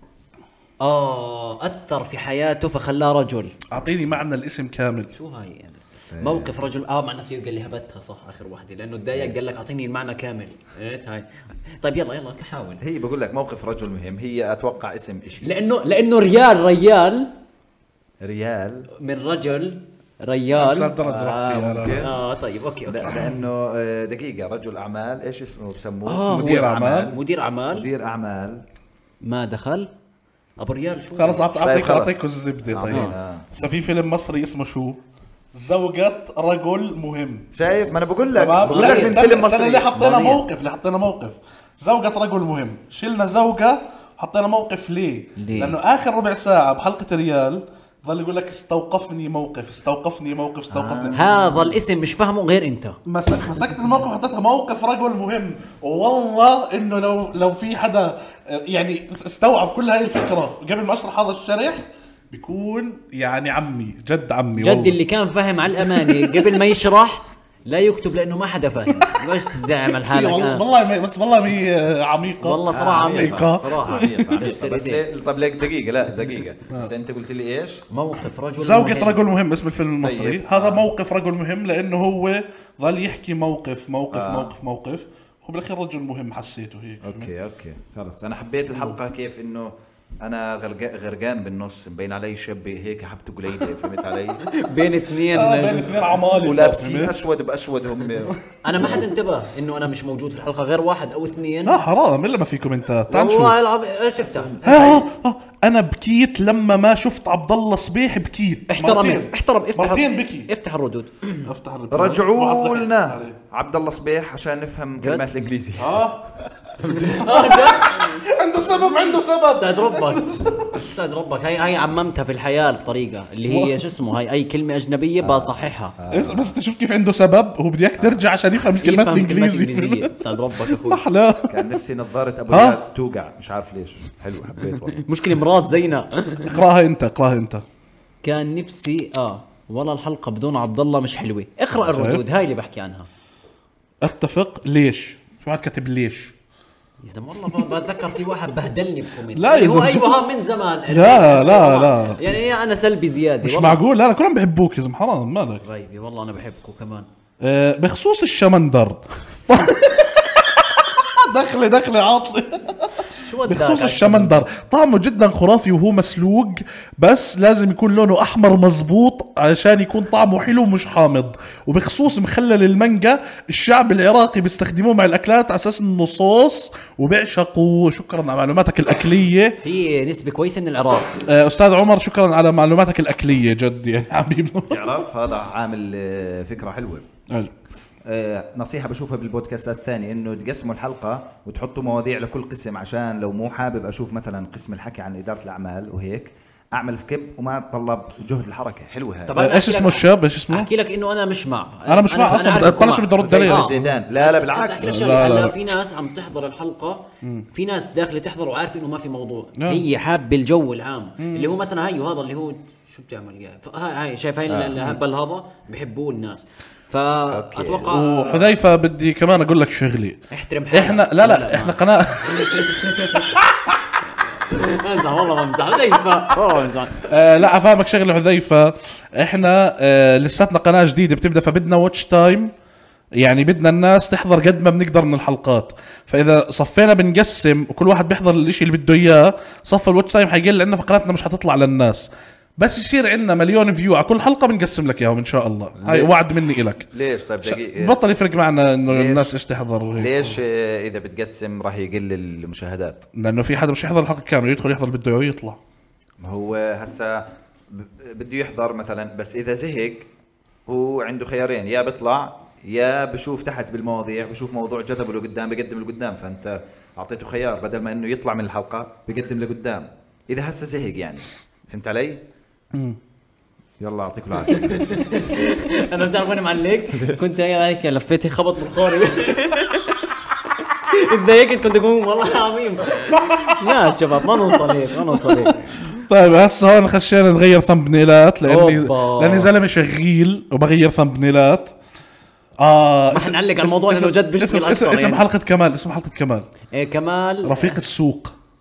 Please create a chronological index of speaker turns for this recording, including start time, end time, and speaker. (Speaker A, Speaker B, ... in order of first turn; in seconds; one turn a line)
Speaker A: 0.8-3.5
Speaker B: 3.7-5.1
Speaker A: 5.1-11.3
Speaker C: 6.1-6.5
Speaker A: 11.8-12.8
Speaker C: 12.8-15.5
Speaker A: 15.4-17.3
Speaker C: 18.2-18.9
Speaker A: 18.9-20.9
Speaker B: 20.6-22.1
Speaker C: 21.0-22.1
Speaker A: 21.9-23.3
Speaker C: 22.9-28.6
Speaker A: 26.1-27.9
Speaker B: 26.3-27.1
Speaker A: 29.2-29.9
Speaker A: 30.6-31.5
Speaker B: 31.2-35.0
Speaker C: 31.5-33.5
Speaker A: 32.9-33.1
Speaker B: 35.5-37.5
Speaker C: 37.5-39.9
Speaker B: 38.3-51.3
Speaker A: 38.6-40.5
Speaker A: 45.4-45.8
Speaker C: 50.7-51.6
Speaker A: 51.1-53.0
Speaker B: 53.0-65.0
Speaker A: 64.6-70.6
Speaker B: 65.8-66.5
Speaker B: 69.9-73.9
Speaker A: 72.4-75.0
Speaker C: 72.7-77.8
Speaker A: 77.9-79.2
Speaker B: 78.6-87.3
Speaker C: 80.0-80.9
Speaker C: 84.1-84.5
Speaker C: 87.0-94.4
Speaker A: 94.5-96.1
Speaker B: 95.3-97.1
Speaker C: 96.4-99.1
Speaker A: 98.6-101.8
Speaker B: 101.7-103.6
Speaker A: 103.1-104.9
Speaker C: 104.3-105.0
Speaker B: 104.6-110.5
Speaker A: 108.7-111.5
Speaker B: 111.4-113.4
Speaker C: 111.9-117.2
Speaker A: 115.0-115.3
Speaker B: 115.8-116.3
Speaker A: 117.0-118.2
Speaker B: 117.2-120.6
Speaker A: 119.5-125.9
Speaker B: 123.5-123.8
Speaker C: 125.2-126.5
Speaker B: 126.1-130.1
Speaker A: 128.8-131.0
Speaker B: 130.7-131.6
Speaker C: 131.5-135.0
Speaker B: 132.5-132.8
Speaker A: 134.9-136.6
Speaker B: 136.4-137.6
Speaker A: 138.2-143.1
Speaker B: 141.8-142.2
Speaker B: 144.0-146.3
Speaker A: 147.0-153.8
Speaker B: 149.3-150.2
Speaker B: 150.9-152.3
Speaker B: 153.4-155.6
Speaker A: 155.6-157.1
Speaker B: 157.4-179.6
Speaker A: 163.2-164.4
Speaker A: 179.6-181.2
Speaker B: 181.3-184.9
Speaker C: 184.7-187.1
Speaker C: 188.1-199.3
Speaker A: 199.3-218.5
Speaker B: 199.4-200.7
Speaker B: 201.9-203.8
Speaker C: 203.1-205.0
Speaker B: 204.8-205.6
Speaker B: 209.6-209.8
Speaker B: 211.2-211.5
Speaker C: 214.5-215.0
Speaker C: 217.3-218.4
Speaker B: 217.9-220.2
Speaker A: 220.3-221.8
Speaker B: 220.7-223.4
Speaker A: 222.3-223.3
Speaker A: 224.5-227.0
Speaker B: 227.1-232.5
Speaker B: 233.2-246.9
Speaker C: 245.8-246.2
Speaker C: 246.9-248.0
Speaker B: 247.4-250.2
Speaker C: 248.9-249.3
Speaker C: 249.9-253.1
Speaker B: 253.2-255.6
Speaker C: 256.2-260.1
Speaker C: 260.7-272.2
Speaker B: 272.7-273.0
Speaker C: 273.8-275.0
Speaker A: 274.5-280.0
Speaker C: 276.9-277.2
Speaker A: 280.7-285.7
Speaker B: 283.1-283.8
Speaker B: 285.3-291.7
Speaker A: 288.4-289.5
Speaker B: 292.6-296.4
Speaker A: 293.1-295.2
Speaker A: 296.7-297.8
Speaker B: 297.4-298.3